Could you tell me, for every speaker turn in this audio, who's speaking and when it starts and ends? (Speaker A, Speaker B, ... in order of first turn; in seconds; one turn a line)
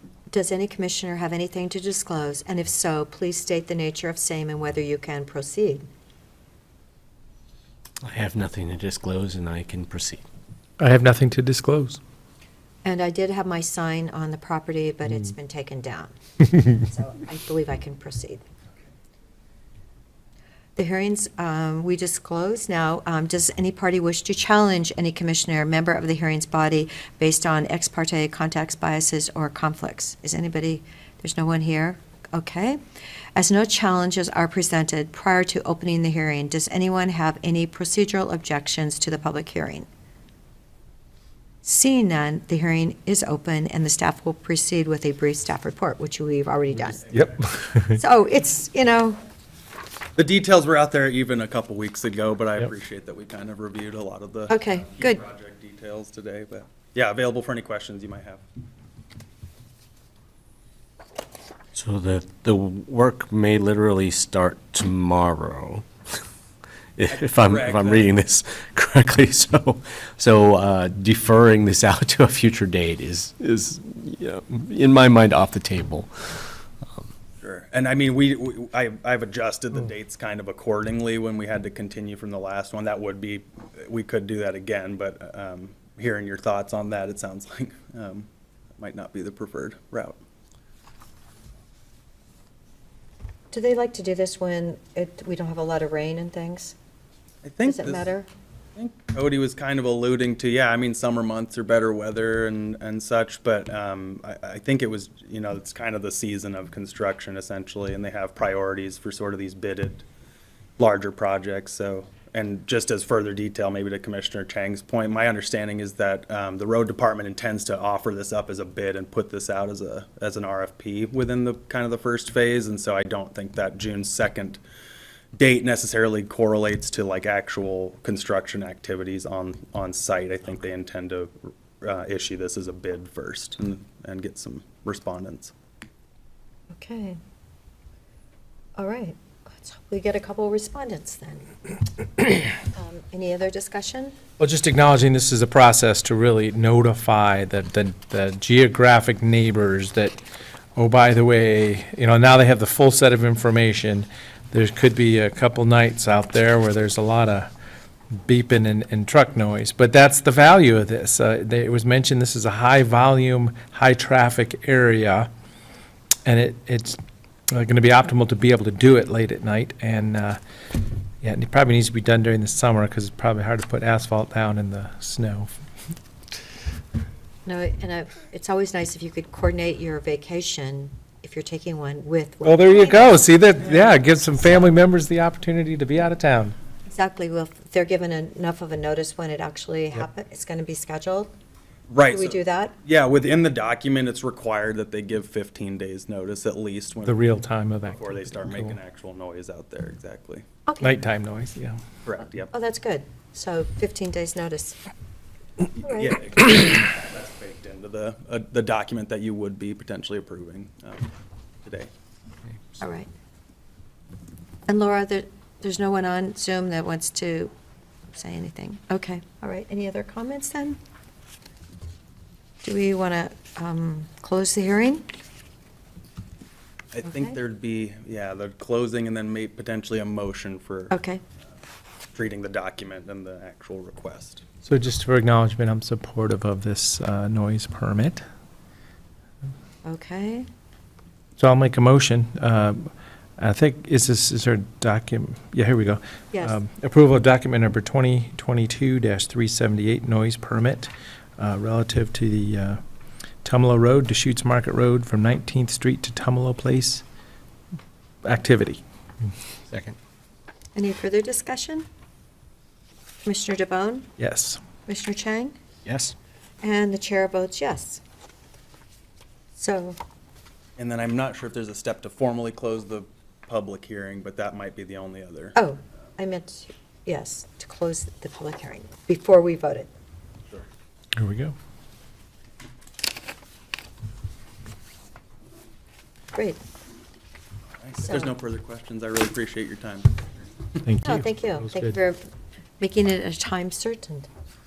Speaker A: 0.3-5.9
Speaker B: 8.1-10.2
Speaker C: 10.8-12.0
Speaker A: 12.8-18.4
Speaker A: 20.8-32.8
Speaker A: 33.4-39.9
Speaker A: 41.6-47.1
Speaker D: 47.0-47.5
Speaker C: 47.1-48.0
Speaker A: 47.9-49.2
Speaker D: 50.2-58.4
Speaker A: 54.5-55.2
Speaker B: 61.7-65.9
Speaker B: 67.0-76.4
Speaker D: 67.1-68.1
Speaker D: 77.4-90.2
Speaker A: 93.5-96.8
Speaker D: 97.4-98.1
Speaker A: 97.7-98.3
Speaker D: 98.8-110.0
Speaker D: 110.8-124.6
Speaker D: 125.4-135.5
Speaker A: 136.7-137.2
Speaker A: 138.8-144.2
Speaker C: 144.4-150.2
Speaker C: 150.8-157.5
Speaker C: 158.2-165.3
Speaker C: 166.2-167.0
Speaker C: 167.5-170.4
Speaker C: 171.2-175.5
Speaker A: 177.5-184.5
Speaker C: 182.4-186.6
Speaker A: 186.9-191.3
Speaker D: 191.9-197.2
Speaker A: 192.1-192.8
Speaker C: 197.0-198.8
Speaker D: 197.9-200.4
Speaker A: 200.7-201.0
Speaker C: 200.8-201.8
Speaker D: 202.1-202.5
Speaker A: 202.5-204.8
Speaker D: 205.8-211.1
Speaker A: 205.8-206.2
Speaker D: 211.7-211.9
Speaker A: 212.8-213.1
Speaker A: 214.7-217.5
Speaker A: 218.1-220.8
Speaker A: 222.6-225.1
Speaker D: 226.9-231.0
Speaker A: 227.0-227.4
Speaker A: 230.9-231.2
Speaker D: 232.1-234.4
Speaker C: 234.7-238.2
Speaker A: 239.8-240.5
Speaker C: 241.4-252.8
Speaker A: 246.3-246.6
Speaker C: 253.4-257.0
Speaker C: 258.2-258.8
Speaker B: 259.7-260.0
Speaker A: 260.8-261.9
Speaker A: 263.2-264.1
Speaker C: 264.2-264.6
Speaker A: 264.9-265.6
Speaker B: 265.9-266.1
Speaker A: 266.6-268.0
Speaker A: 269.6-270.0
Speaker D: 270.8-275.6
Speaker A: 275.6-279.9
Speaker C: 281.2-281.6
Speaker A: 286.3-286.6
Speaker D: 287.8-290.1
Speaker A: 288.0-288.3
Speaker C: 290.8-291.9
Speaker A: 291.0-292.2
Speaker A: 292.8-294.3